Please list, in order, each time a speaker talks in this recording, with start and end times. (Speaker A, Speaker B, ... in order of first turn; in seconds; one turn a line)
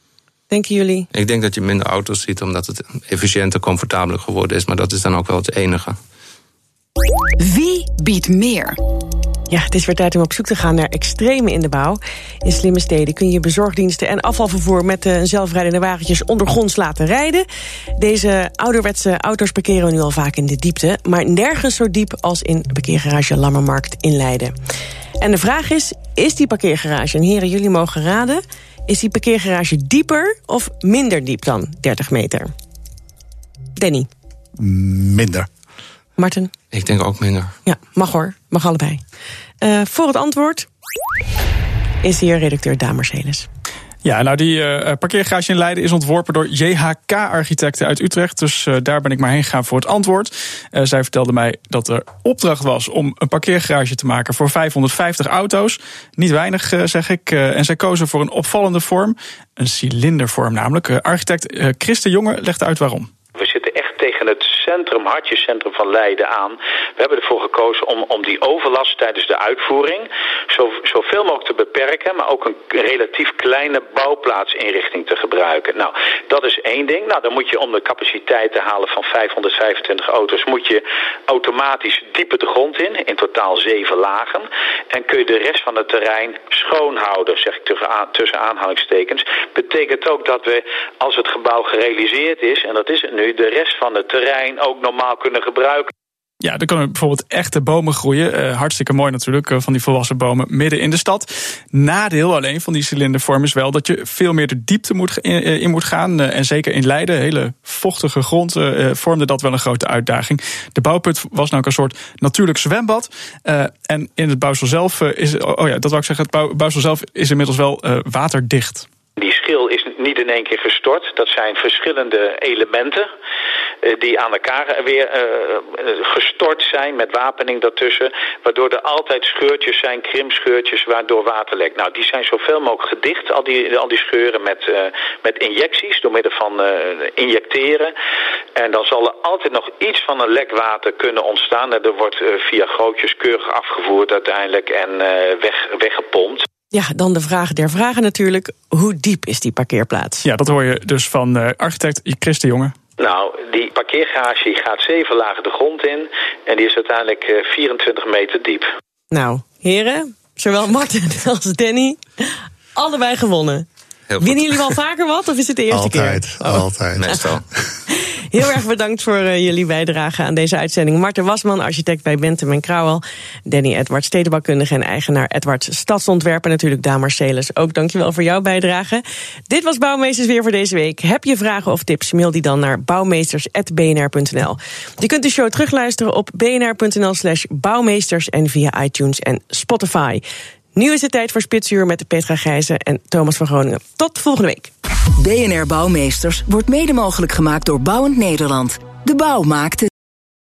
Speaker A: 0.5-1.1
Speaker B: 1.1-6.0
Speaker C: 7.4-8.8
Speaker A: 9.5-17.5
Speaker A: 18.0-24.6
Speaker A: 25.2-32.5
Speaker A: 33.8-34.1
Speaker D: 34.6-35.5
Speaker A: 36.2-36.5
Speaker B: 36.7-37.5
Speaker A: 37.7-39.0
Speaker A: 39.6-40.7
Speaker A: 42.0-43.5
Speaker E: 44.0-63.1
Speaker F: 63.4-95.9
Speaker E: 96.4-118.9
Speaker F: 119.2-123.1
Speaker F: 123.8-137.9
Speaker F: 138.6-146.5
Speaker A: 146.7-150.2
Speaker E: 150.2-152.8
Speaker F: 153.0-158.7
Speaker A: 159.1-163.7
Speaker B: 164.1-164.7
Speaker A: 164.2-167.2
Speaker D: 165.7-167.3
Speaker B: 167.0-167.4
Speaker A: 167.9-190.2
Speaker A: 190.8-194.7
Speaker C: 195.2-199.9